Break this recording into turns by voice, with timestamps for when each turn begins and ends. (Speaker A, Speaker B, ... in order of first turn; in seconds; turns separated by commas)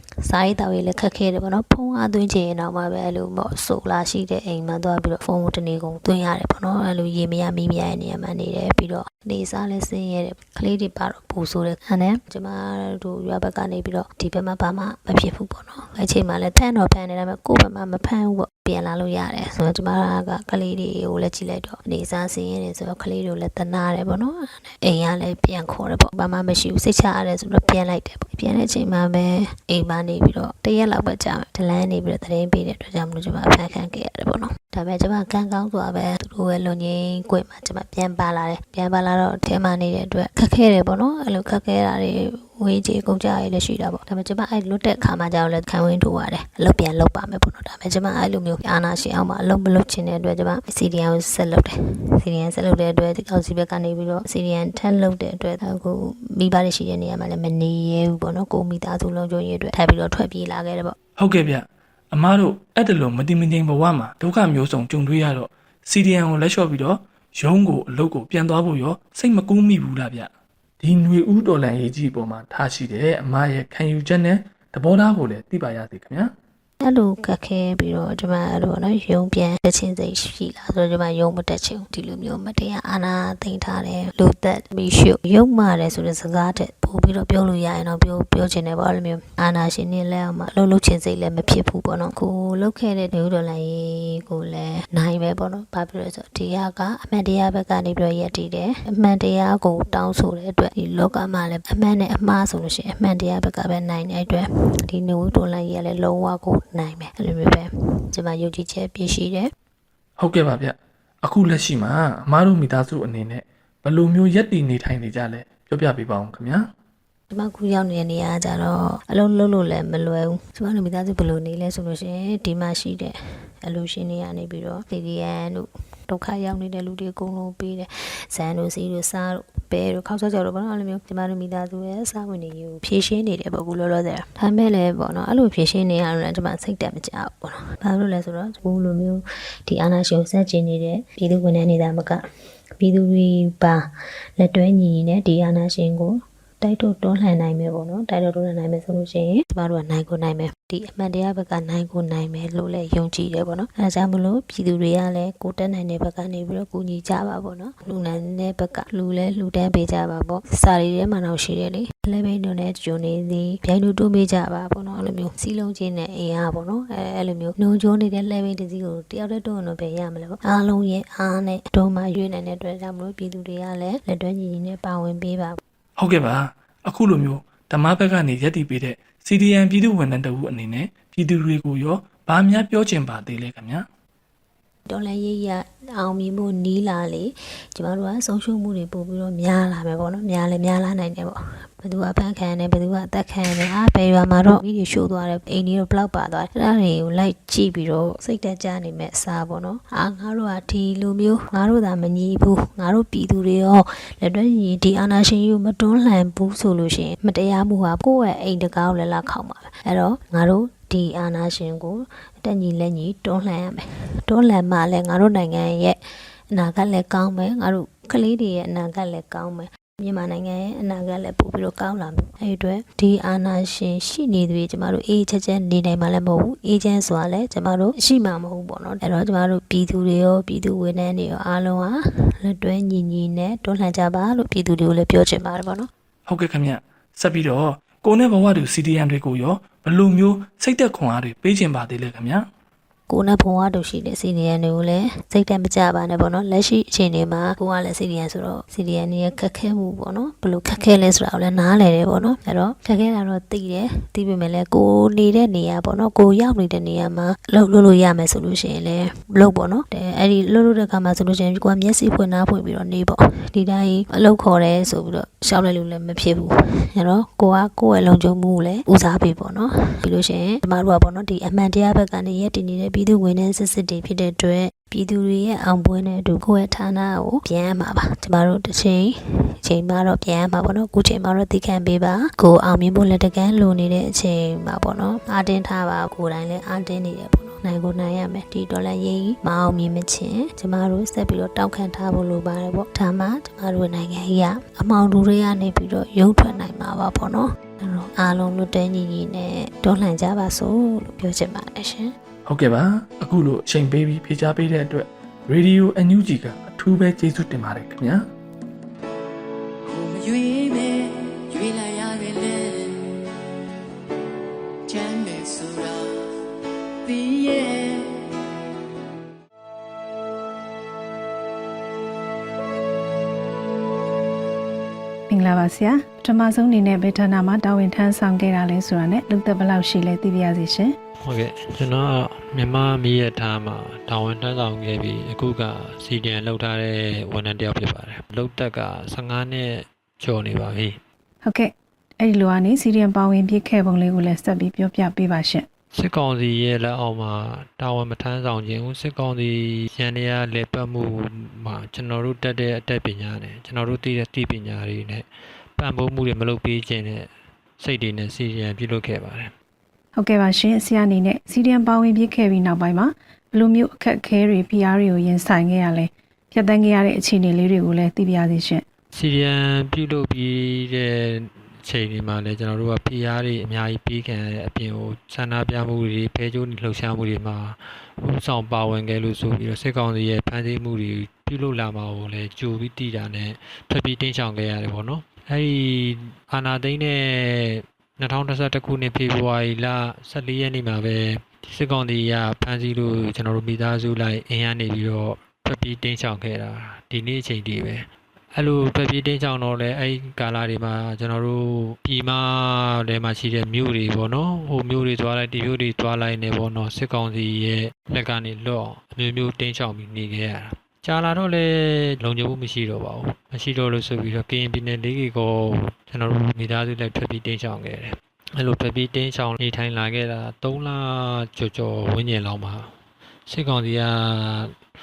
Speaker A: 0.2-60.9, Speaker B: 61.2-61.6, Speaker B: 62.1-70.3, Speaker B: 70.8-76.3, Speaker A: 76.8-109.5, Speaker B: 110.2-116.6, Speaker A: 117.3-142.2, Speaker A: 142.8-143.8, Speaker A: 144.4-175.6, Speaker B: 176.0-183.8, Speaker A: 184.9-216.0, Speaker A: 216.5-235.9, Speaker B: 236.3-238.7, Speaker B: 239.5-242.1, Speaker A: 243.1-302.1, Speaker B: 302.5-308.2, Speaker C: 309.9-313.2, Speaker C: 314.9-316.1, Speaker C: 317.0-318.1, Speaker D: 325.3-330.9, Speaker E: 331.2-341.0, Speaker D: 341.4-345.6, Speaker E: 345.9-355.2, Speaker E: 355.8-357.3, Speaker E: 357.8-359.5, Speaker D: 360.1-368.8, Speaker E: 369.1-422.9, Speaker E: 423.5-424.7